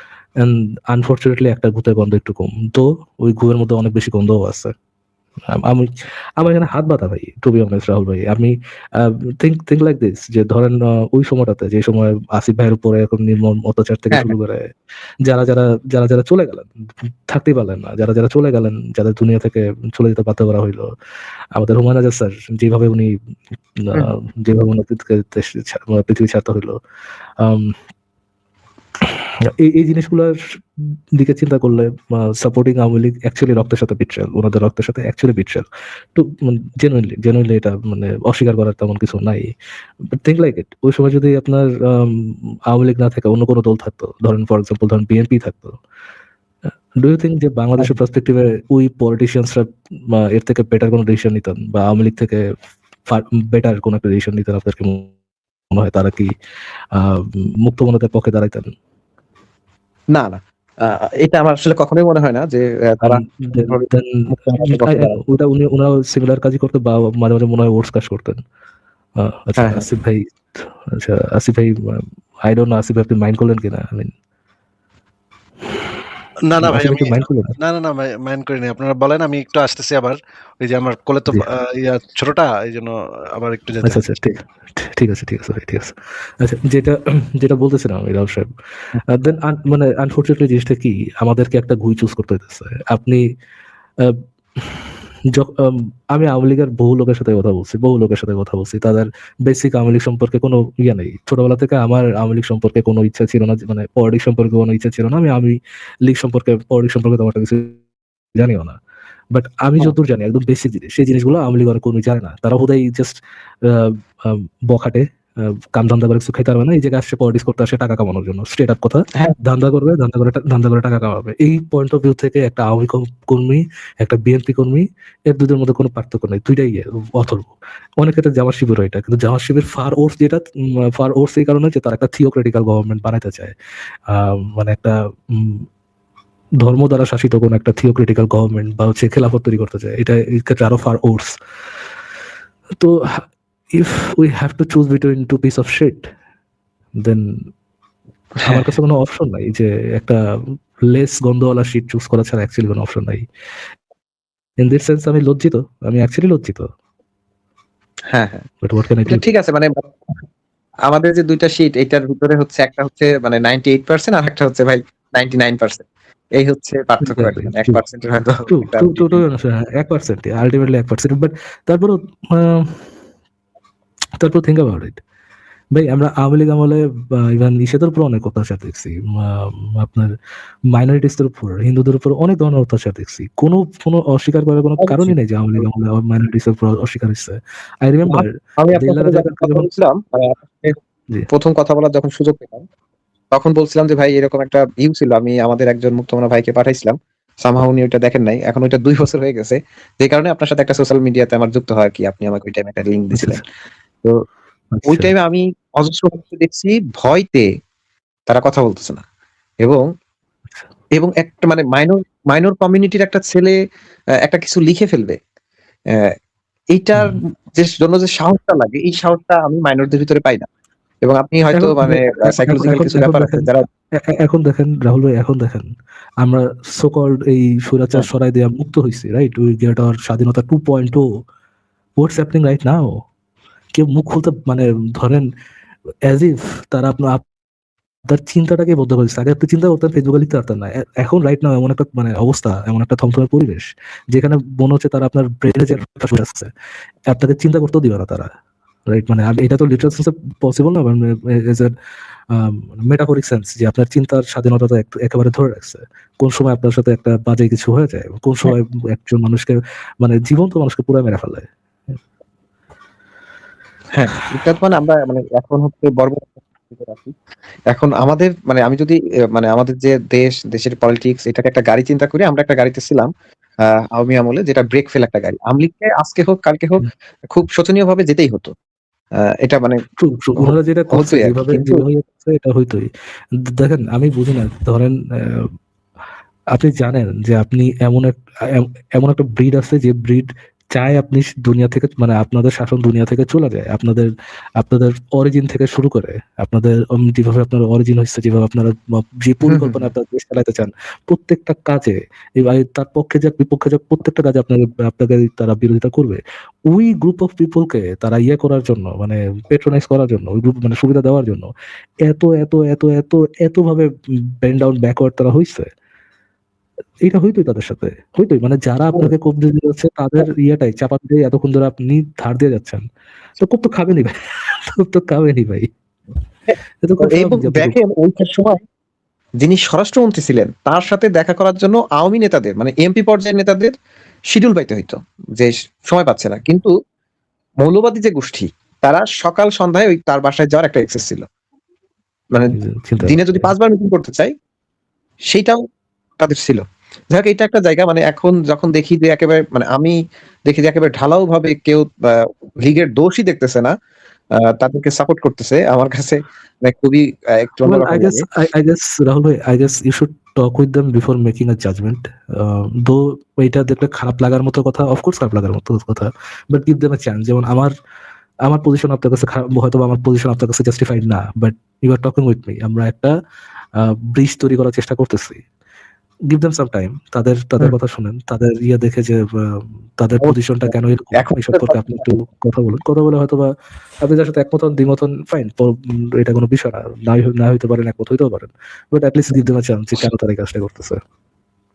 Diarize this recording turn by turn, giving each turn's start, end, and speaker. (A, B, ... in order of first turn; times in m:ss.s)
0:00.4-0:04.7 A
0:05.5-0:14.7 A
0:15.2-0:20.9 A
0:21.6-0:23.1 A
0:23.9-0:26.8 A
0:27.4-0:27.8 A
0:29.1-0:30.4 A
0:31.2-0:39.5 A
0:40.2-0:45.8 A
0:47.0-0:52.4 A
0:53.1-0:55.1 A
0:55.7-0:56.3 A
0:56.9-0:58.7 A
1:00.1-1:05.2 B
1:03.0-1:08.4 A
1:09.2-1:14.1 A
1:09.6-1:09.8 B
1:16.5-1:24.1 C
1:16.6-1:17.6 A
1:23.8-1:28.5 A
1:29.1-1:33.2 A
1:34.0-1:47.8 A
1:48.4-1:48.8 A
1:49.3-2:07.5 A
2:08.0-2:13.5 A
2:14.1-2:15.6 A
2:16.6-2:21.3 A
2:22.8-2:23.2 A
2:23.7-2:26.1 A
2:28.5-2:30.2 A
2:30.9-2:33.2 A
2:34.6-2:36.7 A
2:38.1-2:38.5 B
2:38.6-2:39.2 A
2:39.1-2:39.9 B
2:40.9-2:49.2 B
2:47.0-2:47.8 A
2:48.5-2:52.8 A
2:54.2-2:55.0 A
2:55.7-3:00.1 A
3:00.7-3:09.6 A
3:04.8-3:05.6 B
3:08.1-3:10.8 B
3:11.3-3:12.6 B
3:13.3-3:23.4 B
3:23.1-3:23.4 A
3:24.7-3:25.1 A
3:24.9-3:27.5 B
3:28.3-3:29.0 B
3:31.0-3:33.6 B
3:34.2-3:35.2 B
3:36.7-3:40.5 B
3:41.0-3:43.6 B
3:41.6-3:45.7 A
3:46.2-3:51.1 A
3:52.0-3:53.0 A
3:53.8-3:55.2 A
3:56.1-3:57.2 A
3:58.1-4:06.5 A
4:07.1-4:08.3 A
4:08.9-4:11.7 A
4:12.3-4:21.5 A
4:23.9-4:27.1 B
4:27.7-4:33.1 B
4:33.6-4:38.5 B
4:39.2-4:39.8 B
4:40.0-4:42.9 A
4:40.4-4:41.8 B
4:43.5-4:45.5 A
4:46.5-5:11.5 A
4:59.5-4:59.8 B
5:12.0-5:13.9 A
5:14.4-5:15.7 A
5:17.0-5:22.8 A
5:23.4-5:25.7 A
5:26.5-5:28.6 B
5:26.8-5:27.8 A
5:29.4-5:33.7 B
5:34.3-5:36.7 B
5:37.6-5:41.2 B
5:42.3-5:44.3 B
5:42.5-5:43.5 A
5:45.3-5:45.6 B
5:46.2-5:53.7 B
5:54.3-5:58.2 B
5:57.6-6:07.7 A
6:08.5-6:13.1 A
6:13.8-6:15.4 A
6:16.3-6:23.5 A
6:20.2-6:22.1 B
6:24.0-6:31.0 A